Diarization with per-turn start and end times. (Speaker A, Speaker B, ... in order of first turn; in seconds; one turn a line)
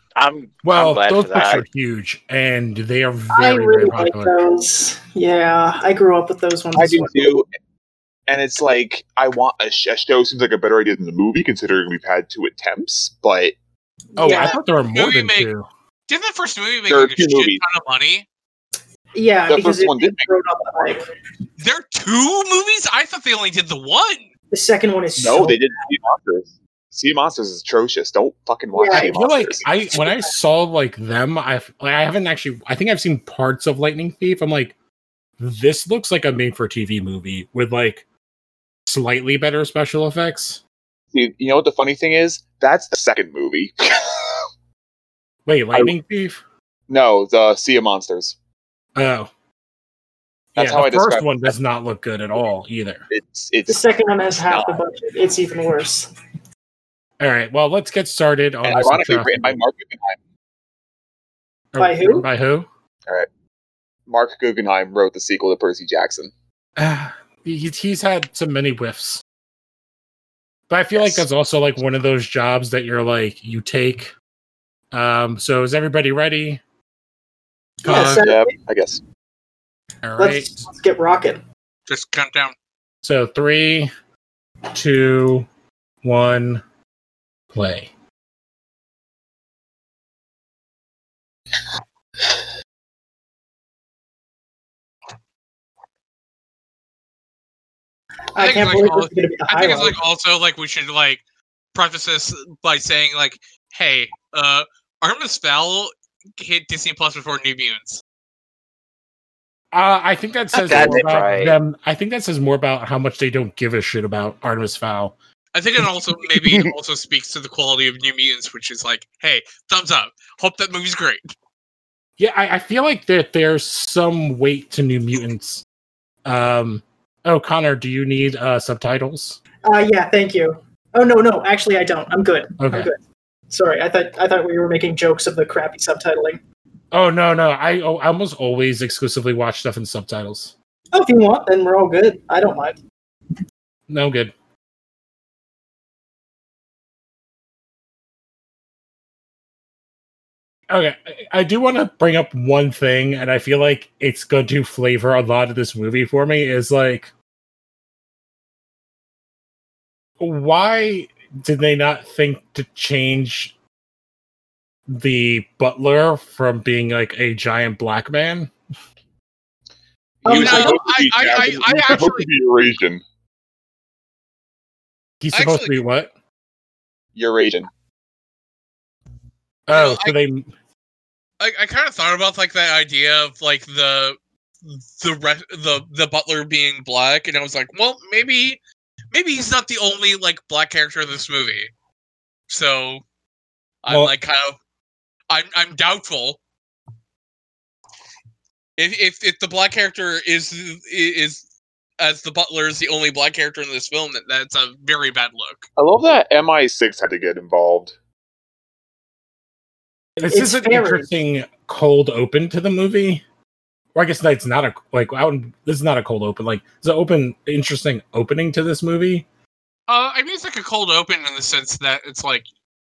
Speaker A: 0.1-1.6
Speaker B: 0.6-4.3
Speaker C: 3.3-7.3
Speaker D: 6.7-7.5
Speaker D: 8.3-13.5
Speaker C: 14.1-14.6
Speaker B: 14.2-15.7
Speaker E: 14.9-15.5
Speaker E: 16.1-18.2
Speaker D: 16.9-17.6
Speaker C: 19.1-21.1
Speaker D: 19.5-20.3
Speaker E: 21.6-24.3
Speaker C: 24.5-25.6
Speaker D: 25.2-29.7
Speaker C: 28.7-29.1
Speaker B: 28.9-34.7
Speaker C: 29.9-30.3
Speaker B: 35.4-38.0
Speaker B: 38.9-40.6
Speaker D: 41.1-44.3
Speaker B: 45.5-46.4
Speaker D: 46.9-48.3
Speaker B: 49.0-49.3
Speaker D: 50.5-51.5
Speaker B: 50.5-53.0
Speaker D: 53.1-53.8
Speaker C: 53.7-56.1
Speaker D: 54.4-54.8
Speaker B: 57.2-59.6
Speaker D: 58.6-60.2
Speaker B: 61.7-62.7
Speaker C: 61.8-62.2
Speaker D: 64.1-66.3
Speaker B: 66.8-69.2
Speaker B: 70.7-74.1
Speaker B: 74.9-76.6
Speaker C: 77.8-78.5
Speaker B: 77.8-78.3
Speaker D: 78.0-79.0
Speaker B: 80.0-80.7
Speaker C: 80.2-81.4
Speaker E: 81.9-82.5
Speaker B: 83.0-83.9
Speaker B: 84.7-85.5
Speaker B: 86.0-86.6
Speaker B: 87.5-87.9
Speaker C: 98.3-100.0
Speaker E: 98.4-101.2
Speaker E: 101.7-108.0
Speaker B: 109.7-115.1
Speaker A: 110.5-111.6
Speaker E: 115.5-121.2
Speaker D: 116.4-116.7
Speaker B: 122.2-125.6
Speaker B: 126.2-129.4
Speaker C: 129.6-133.0
Speaker B: 132.6-132.9
Speaker C: 133.5-136.4
Speaker B: 136.9-140.5
Speaker C: 140.9-142.8
Speaker B: 143.9-144.3
Speaker B: 150.7-157.1
Speaker B: 160.2-163.5
Speaker B: 164.9-168.5
Speaker D: 170.2-173.0
Speaker C: 170.2-170.8
Speaker E: 170.2-172.3
Speaker B: 175.2-176.1
Speaker E: 175.3-175.7
Speaker D: 177.2-177.7
Speaker B: 179.7-180.5
Speaker E: 179.7-180.1
Speaker E: 181.4-188.6
Speaker E: 189.1-191.7
Speaker E: 192.5-193.0
Speaker E: 193.8-194.6
Speaker B: 193.9-194.1
Speaker E: 195.3-196.4
Speaker E: 198.8-201.4
Speaker E: 202.0-205.7
Speaker D: 205.8-207.9
Speaker B: 210.2-213.2
Speaker C: 210.3-211.1
Speaker B: 213.9-219.2
Speaker E: 219.9-222.4